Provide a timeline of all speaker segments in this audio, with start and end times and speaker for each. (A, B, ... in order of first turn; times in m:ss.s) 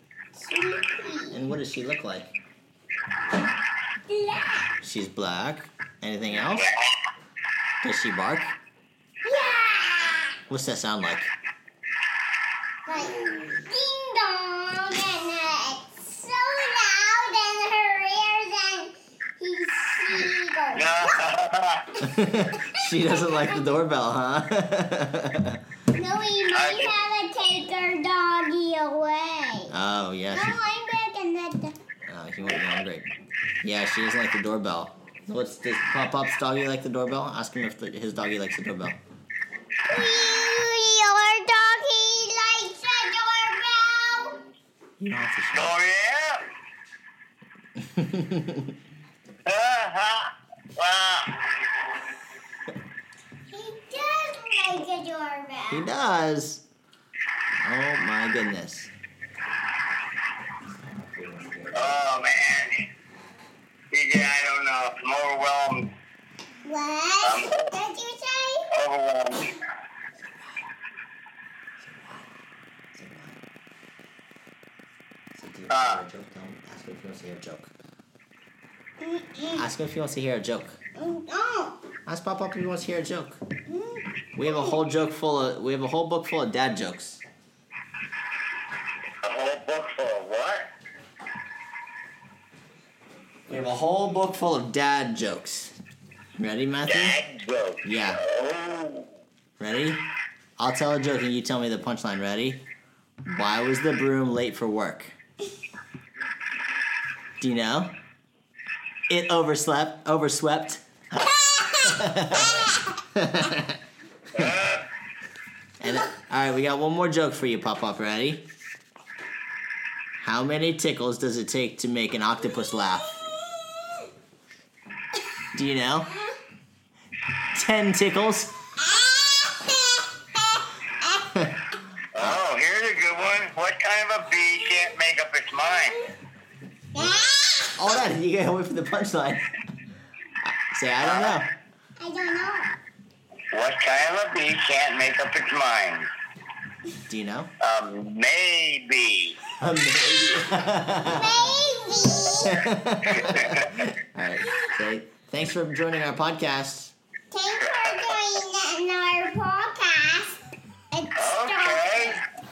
0:00.3-0:01.4 A
0:01.3-0:02.3 B
0:04.1-0:04.7 A
0:04.8-0:06.7 B
0:06.4-0:06.8 C
0:07.8-0:08.6 B
0:09.2-0:10.4 A
0:10.5-0:11.3 B
0:12.8-0:21.1 A
0:20.7-0:21.8 C
0:22.0-0:25.6 B
0:22.6-0:23.6 A
0:25.9-0:29.7 A
0:26.5-0:26.9 C
0:29.7-0:30.6 B
0:30.3-0:31.8 A
0:32.1-0:33.1 B
0:33.6-0:39.0 B
0:39.9-0:44.4 A
0:45.0-0:45.8 B
0:45.5-0:46.4 C
0:47.8-0:48.7 B
0:49.4-0:51.4 C
0:53.5-0:55.9 A
0:55.7-0:56.6 B
0:57.6-0:58.9 B
1:01.1-1:02.0 B
1:01.7-1:02.8 C
1:03.9-1:05.9 C
1:06.6-1:08.7 A
1:07.2-1:07.7 C
1:08.7-1:09.6 C
1:11.8-1:12.2 B
1:12.9-1:13.4 B
1:15.3-1:17.7 B
1:15.7-1:16.0 C
1:19.0-1:19.6 A
1:19.5-1:20.8 B
1:20.9-1:21.8 A
1:22.0-1:23.4 B
1:23.6-1:24.7 A
1:24.4-1:27.2 B
1:29.2-1:30.7 C
1:33.5-1:35.7 B
1:36.4-1:37.2 B
1:36.8-1:39.0 C
1:37.8-1:38.2 B
1:39.6-1:40.0 B
1:40.6-1:42.6 B
1:43.2-1:45.1 B
1:47.4-1:47.9 B
1:49.1-1:53.8 B
1:54.3-1:54.8 C
1:55.8-1:58.4 B
2:00.2-2:03.2 B
2:05.5-2:06.1 B
2:07.5-2:08.5 B
2:08.8-2:11.3 A
2:12.1-2:16.0 C
2:16.9-2:17.8 A
2:17.8-2:19.5 B
2:20.4-2:21.5 B
2:21.0-2:21.4 C
2:22.0-2:22.7 A
2:23.5-2:26.1 C
2:27.1-2:27.5 B
2:27.6-2:29.4 C
2:29.6-2:31.4 B
2:31.0-2:32.6 A
2:32.5-2:36.9 B
2:33.1-2:33.7 C
2:37.3-2:42.2 A
2:37.7-2:38.2 C
2:41.2-2:42.2 C